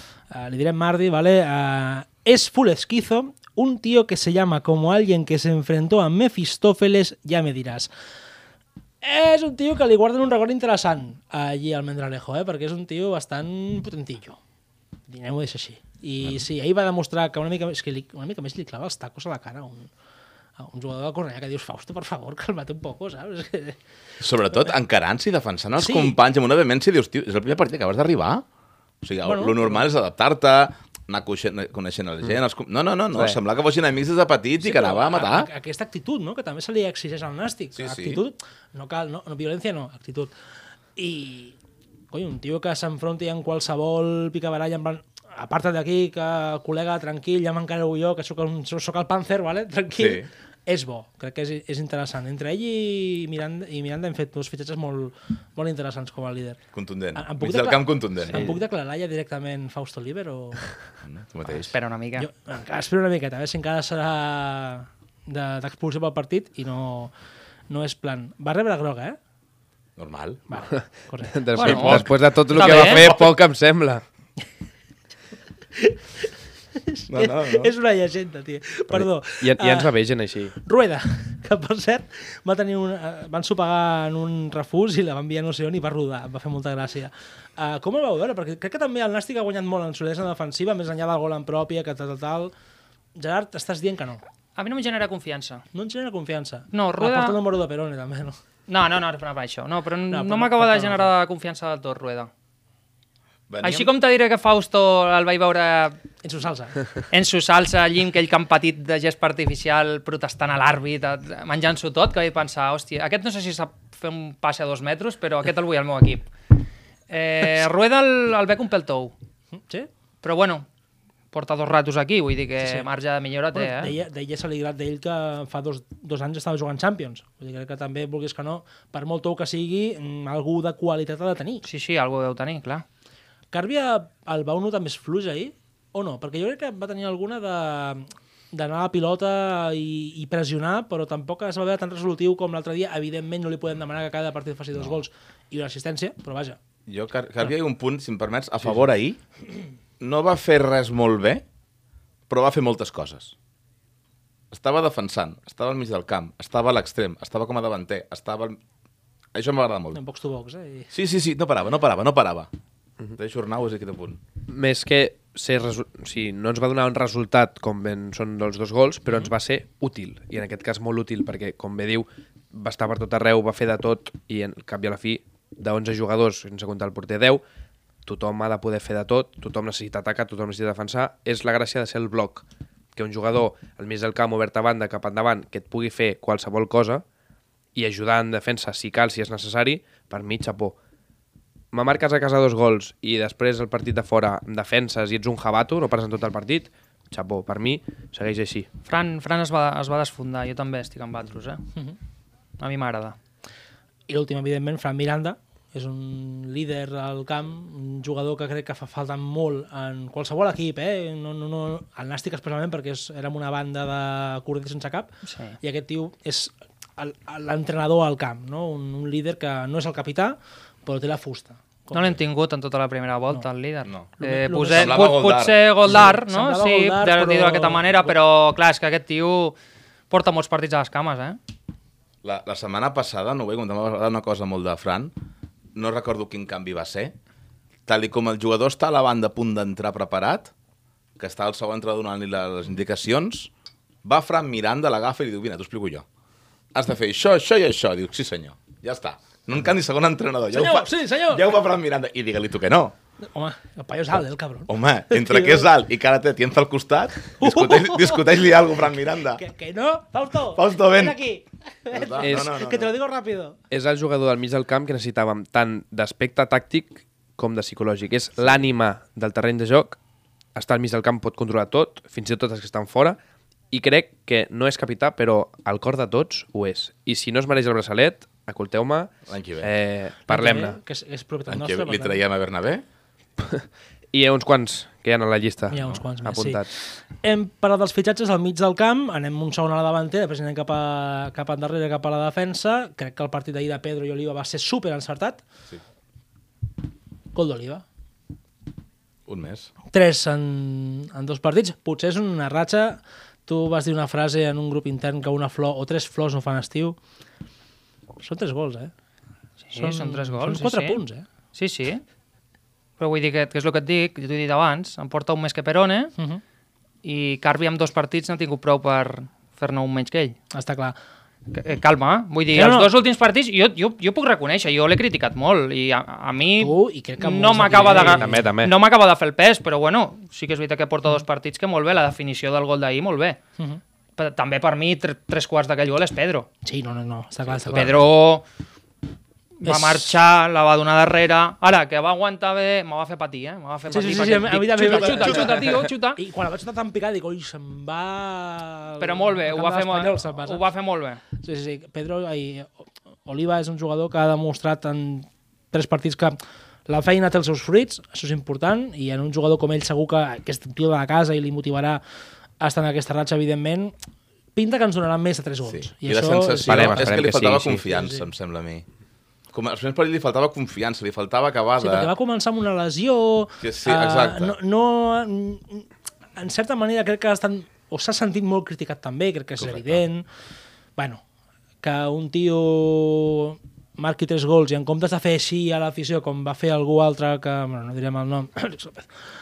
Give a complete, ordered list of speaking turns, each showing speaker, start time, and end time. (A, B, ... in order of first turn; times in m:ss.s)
0:00.3-0:07.9 A
0:09.0-0:14.4 A
0:15.1-0:19.9 A
0:20.6-0:23.8 A
0:24.2-0:28.4 B
0:25.8-0:26.2 A
0:29.0-0:35.5 B
0:29.2-0:29.9 A
0:34.6-0:40.3 A
0:37.8-0:38.2 B
0:41.0-0:41.6 A
0:42.1-0:56.6 A
0:50.0-0:50.3 B
0:56.7-0:58.6 B
0:57.1-1:00.7 A
1:01.0-1:01.7 B
1:01.5-1:02.3 C
1:02.2-1:07.1 A
1:07.7-1:09.2 A
1:10.0-1:10.4 B
1:10.5-1:11.5 A
1:11.3-1:14.0 D
1:11.6-1:13.1 C
1:11.6-1:13.4 B
1:16.8-1:19.9 A
1:17.1-1:17.7 B
1:18.9-1:20.6 D
1:20.6-1:32.5 A
1:33.2-1:34.2 A
1:34.6-1:35.6 C
1:35.7-1:38.4 A
1:36.7-1:37.4 C
1:38.7-1:42.3 C
1:40.1-1:41.1 A
1:43.5-1:43.9 B
1:43.6-1:46.0 C
1:46.2-1:46.8 A
1:47.1-1:56.3 C
1:57.1-1:59.1 C
1:59.5-1:59.9 A
2:00.2-2:00.7 C
2:01.3-2:03.9 C
2:02.6-2:02.9 A
2:03.5-2:11.6 A
2:11.6-2:12.8 C
2:13.5-2:26.6 A
2:26.9-2:29.2 B
2:30.0-2:31.4 B
2:32.3-2:33.4 B
2:34.5-2:38.6 B
2:39.3-2:40.0 B
2:39.9-2:40.9 A
2:40.9-2:42.5 B
2:43.2-2:44.2 B
2:44.5-2:57.4 D
2:58.0-3:02.4 D
3:03.0-3:07.0 D
3:07.8-3:10.8 D
3:11.7-3:18.7 D
3:18.9-3:21.6 C
3:22.6-3:23.2 C
3:24.1-3:35.1 A
3:35.3-3:35.6 C
3:35.6-3:42.2 A
3:41.9-3:49.6 C
3:44.2-3:45.2 A
3:44.7-3:45.6 B
3:45.9-3:48.1 A
3:50.1-3:51.4 C
3:52.2-3:55.1 B
3:55.8-3:57.1 B
3:57.9-4:00.5 B
4:01.2-4:03.5 B
4:04.0-4:06.0 B
4:06.7-4:13.0 B
4:10.5-4:11.5 A
4:13.2-4:15.7 A
4:14.7-4:19.4 B
4:17.4-4:18.3 A
4:19.4-4:23.6 A
4:20.5-4:21.2 B
4:21.9-4:22.9 B
4:22.2-4:22.5 D
4:23.7-4:30.0 D
4:30.6-4:33.2 D
4:33.7-4:40.8 D
4:39.3-4:39.7 B
4:40.3-4:42.2 A
4:41.5-4:42.8 B
4:43.4-4:46.7 D
4:45.7-4:55.4 A
4:57.3-4:57.8 A
4:59.3-4:59.7 B
4:59.9-5:07.0 A
5:08.2-5:08.9 A
5:09.7-5:11.0 C
5:09.8-5:11.3 A
5:11.5-5:12.0 C
5:13.0-5:16.2 C
5:17.0-5:20.4 C
5:20.5-5:21.0 A
5:21.5-5:33.4 C
5:22.5-5:22.9 A
5:26.6-5:28.5 A
5:27.7-5:28.7 D
5:34.2-5:36.5 C
5:36.6-5:38.1 A
5:37.7-5:38.0 B
5:37.7-5:38.4 C
5:39.6-5:46.2 C
5:39.6-5:40.2 A
5:43.9-5:50.6 A
5:44.9-5:45.7 B
5:49.0-5:51.2 C
5:51.4-6:02.0 A
6:02.6-6:03.9 A
6:04.6-6:07.3 A
6:05.6-6:08.8 B
6:06.7-6:07.8 D
6:07.8-6:08.2 A
6:09.5-6:12.1 B
6:11.8-6:20.3 A
6:13.6-6:14.6 B
6:19.6-6:20.0 B
6:21.0-6:21.2 A
6:21.8-6:29.1 A